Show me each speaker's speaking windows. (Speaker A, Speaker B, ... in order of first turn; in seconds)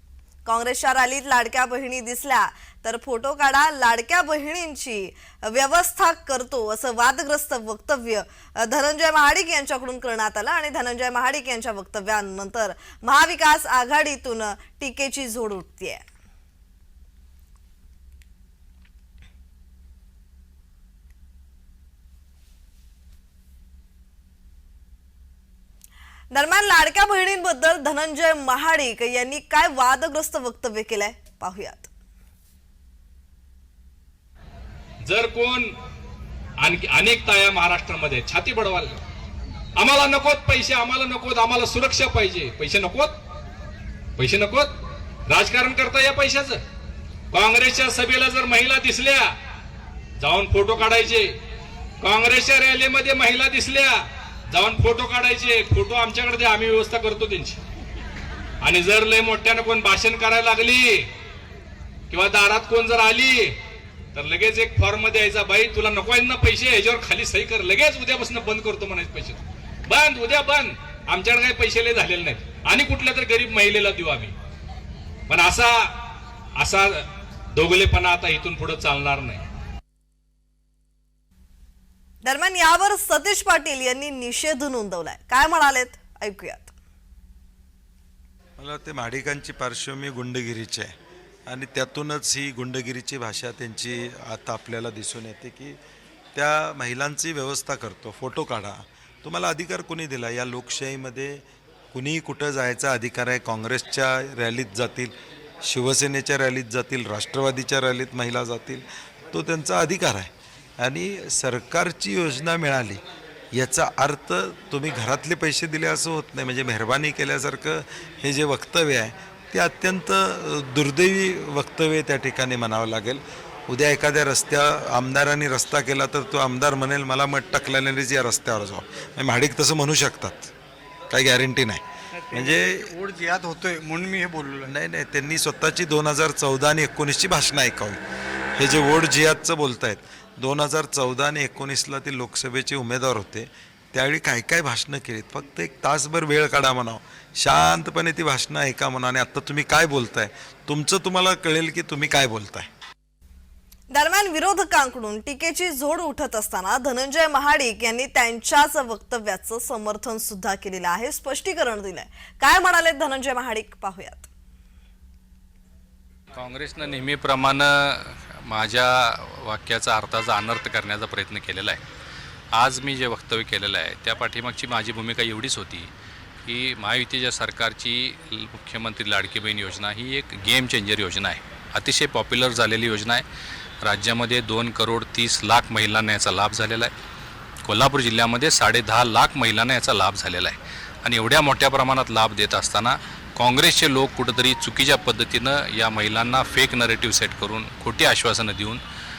Speaker A: 0.4-16.0, 26.3-31.9, 82.2-86.7, 153.9-164.3
Speaker B: 35.0-35.7, 36.6-39.0, 39.7-43.2, 44.2-44.8, 45.3-46.6, 47.3-49.3, 50.2-51.3, 52.0-57.6, 58.6-61.1, 62.1-63.6, 64.1-74.3, 75.3-75.9, 76.6-79.4
Speaker C: 88.6-90.9, 91.5-95.8, 96.3-113.0, 113.5-130.5, 131.1-132.9, 134.7-138.0, 138.6-152.7
Speaker D: 132.2-134.7
Speaker E: 166.3-171.8, 172.5-175.9, 176.4-183.2, 183.8-186.9, 187.6-198.8